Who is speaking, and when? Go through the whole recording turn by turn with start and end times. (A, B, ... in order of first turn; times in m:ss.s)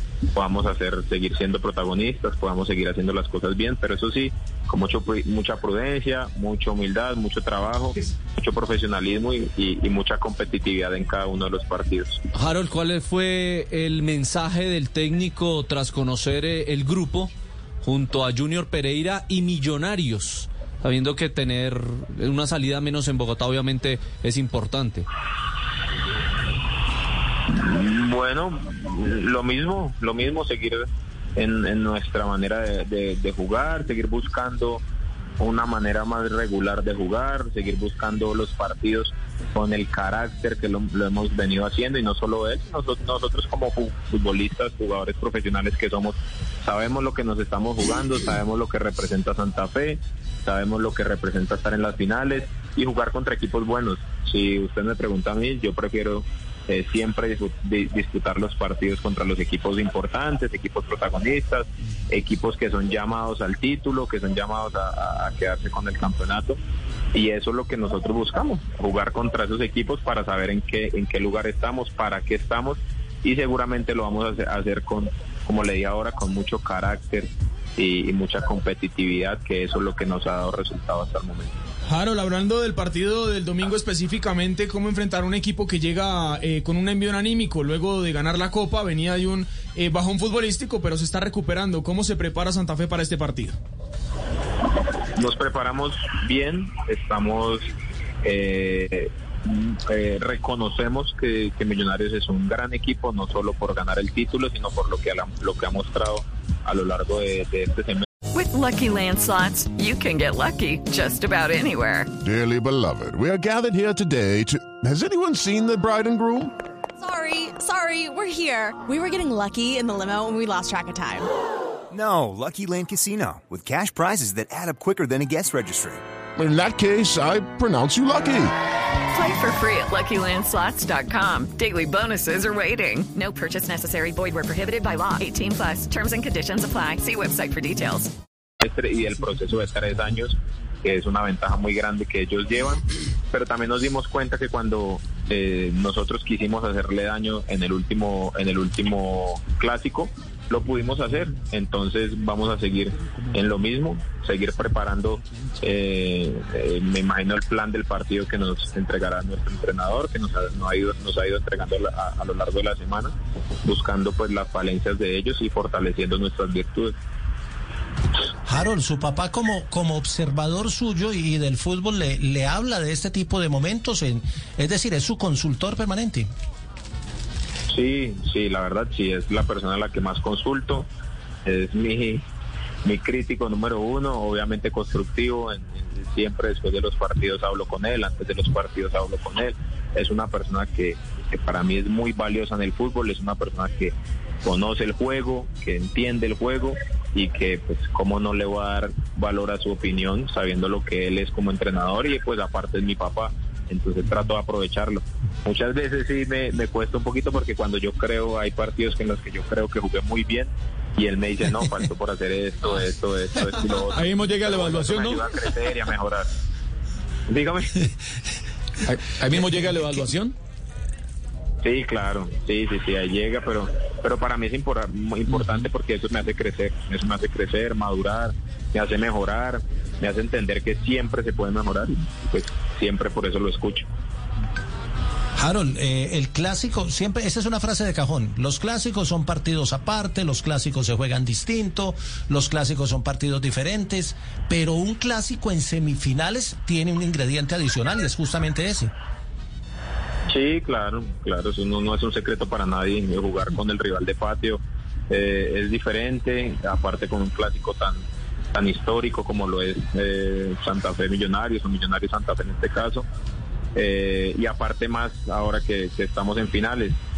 0:00.3-0:12.2 A
0:12.3-0:25.0 B
0:27.5-0:34.8 A
0:35.4-1:06.6 A
1:07.1-1:21.6 A
1:21.9-1:33.5 C
1:35.2-1:37.7 A
1:38.2-1:48.0 A
1:48.3-1:52.1 D
1:52.2-1:56.5 E
1:57.0-2:01.3 F
2:01.9-2:06.0 G
2:06.4-2:08.5 E
2:09.1-2:18.1 D
2:18.6-2:43.1 A
2:43.6-2:46.9 A
2:48.5-2:56.3 H
2:57.7-3:00.9 A
3:01.4-3:02.2 A
3:02.8-3:36.3 A
3:34.0-3:35.2 C
3:37.3-3:37.9 A
3:38.9-3:40.2 C
3:41.6-3:53.9 A
3:55.4-4:08.9 H
4:10.3-4:18.0 A
4:18.5-4:23.0 A
4:23.8-4:27.0 A